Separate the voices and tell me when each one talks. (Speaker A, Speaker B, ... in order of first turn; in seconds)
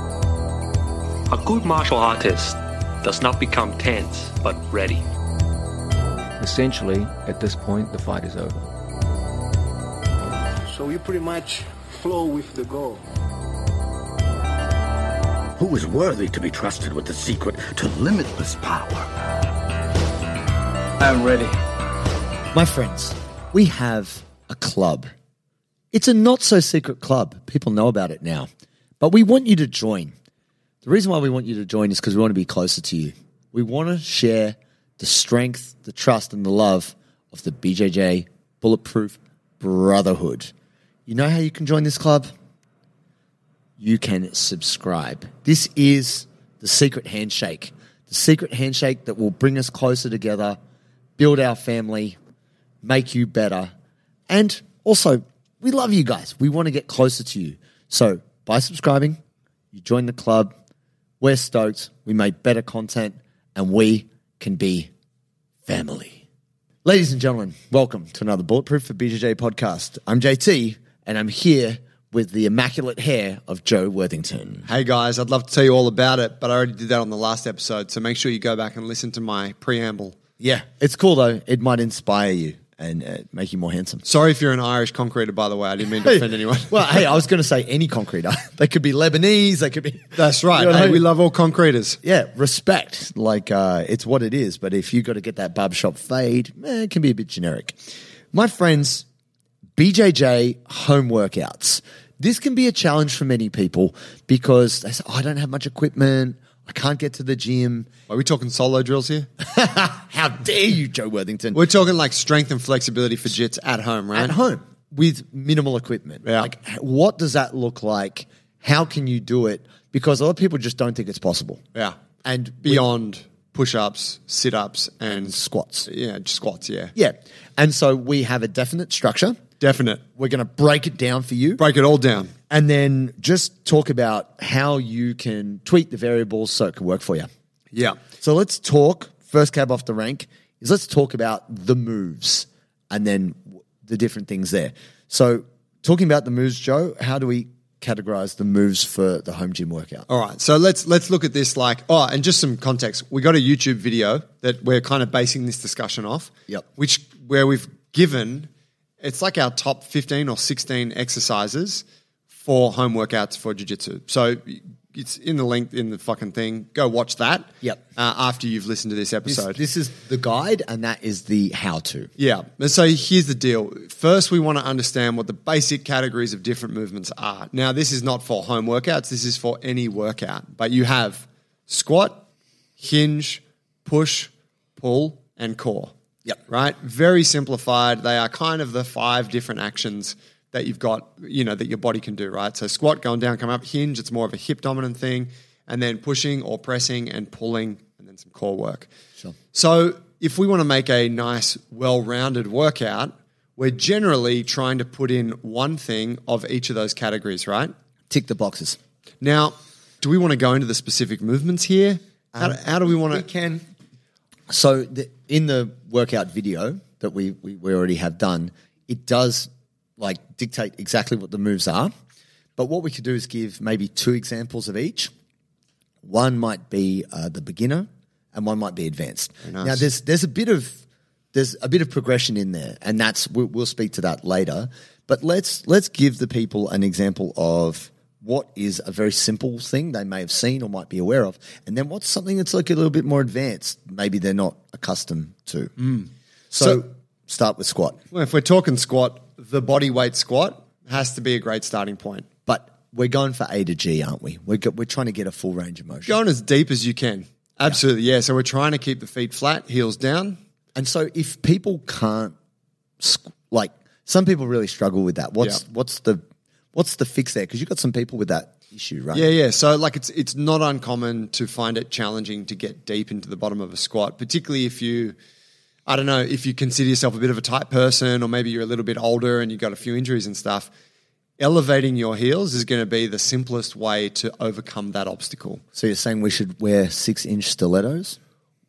Speaker A: 1.3-5.0, 21.0-21.5
Speaker B: 6.4-8.7
Speaker C: 10.7-13.0
Speaker D: 15.6-19.1
Speaker E: 22.5-25.1, 25.9-28.5, 29.0-30.1, 30.8-40.5, 41.1-42.3, 43.8-50.6, 51.2-52.2, 52.8-53.7, 54.3-59.2, 59.7-60.5, 61.2-64.9, 65.7-66.2, 66.8-74.7, 80.4-84.0, 86.0-91.1, 92.0-99.1, 99.8-107.9, 109.4-111.6, 114.1-121.6, 122.2-122.8, 125.1-125.9, 127.0-129.4, 130.2-131.6, 132.5-137.3, 138.0-150.1, 169.2-172.1, 208.1-208.8, 212.3-213.7, 214.5-221.9, 222.6-225.1, 226.0-230.8, 231.3-248.0, 252.5-256.2, 260.8-262.4, 263.0-266.2, 266.7-269.3, 285.8-288.2
Speaker F: 74.7-80.2, 84.0-86.8, 90.2-92.0, 108.1-109.3, 111.5-114.4, 116.2-116.5, 121.8-126.9, 129.6-130.0, 131.6-132.3, 150.1-158.5, 159.0-161.8, 162.4-169.6, 172.2-182.3, 182.8-185.9, 186.5-198.9, 199.5-207.7, 209.2-213.3, 229.4-229.9, 248.1-252.3, 256.1-260.4, 269.1-275.2, 275.9-280.7, 281.4-285.6